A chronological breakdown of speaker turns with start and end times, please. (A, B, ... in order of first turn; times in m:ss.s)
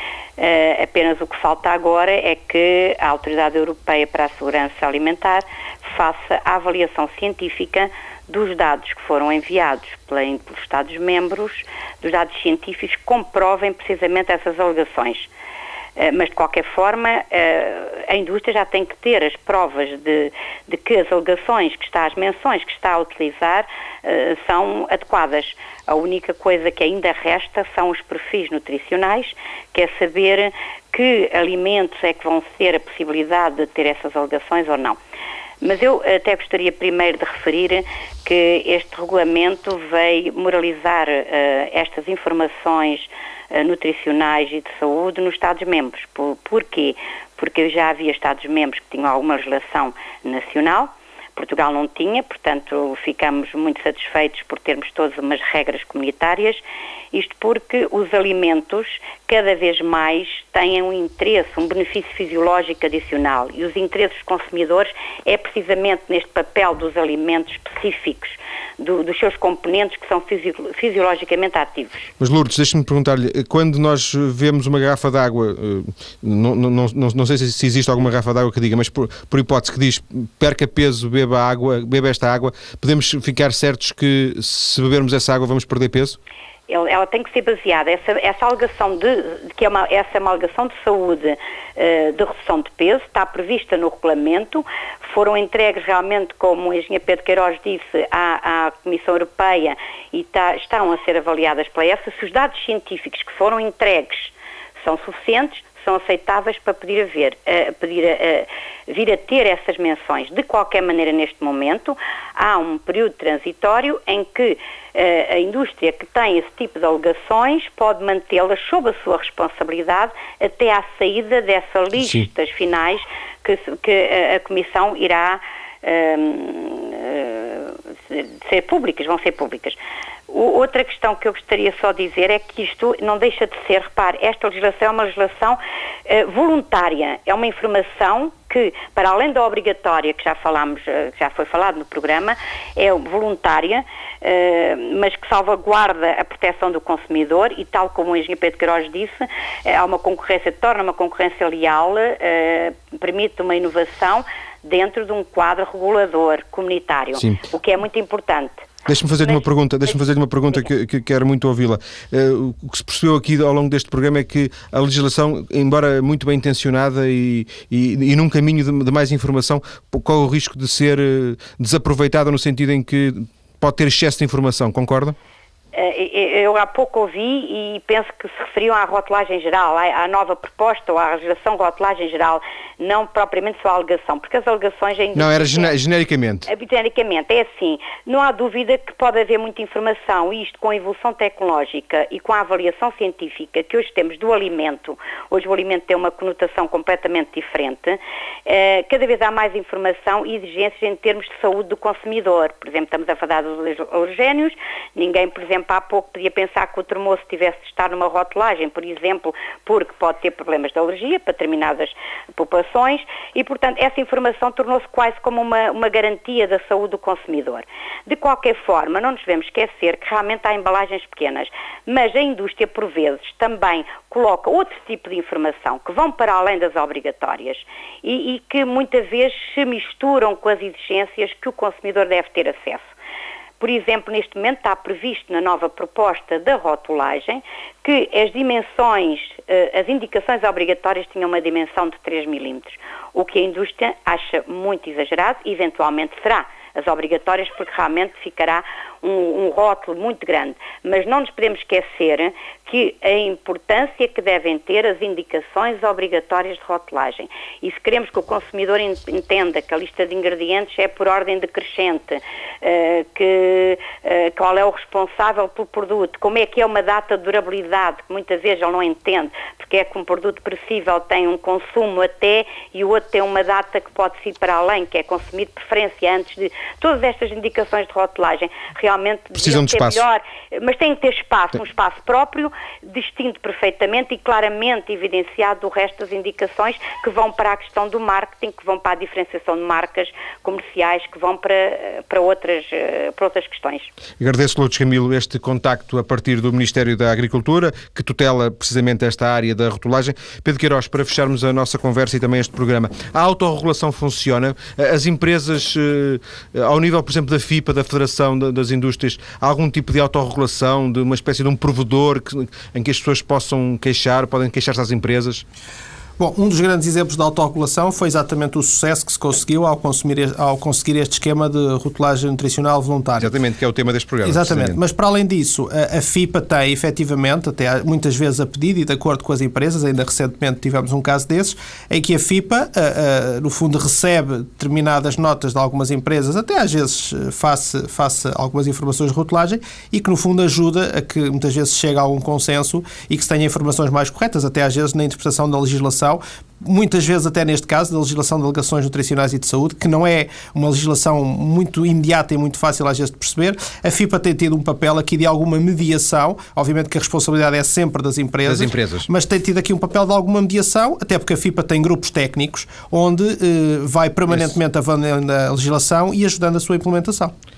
0:00.4-0:15.3 A
0:16.0-0:35.0 A
0:35.6-0:56.6 A
0:57.1-1:12.1 A
1:12.2-1:26.2 B
1:26.7-2:09.8 A
2:02.0-2:02.3 B
2:10.3-2:38.7 A
2:37.1-2:37.4 B
2:38.9-2:55.2 B
2:55.7-3:05.7 A
3:05.1-3:06.5 B
3:06.5-3:52.9 A
3:53.6-4:53.9 A
4:39.4-4:40.0 B
4:54.2-5:15.4 B
5:16.2-5:23.3 C
5:23.2-5:24.8 B
5:24.2-6:07.3 C
5:58.4-5:59.1 B
6:04.3-6:04.5 B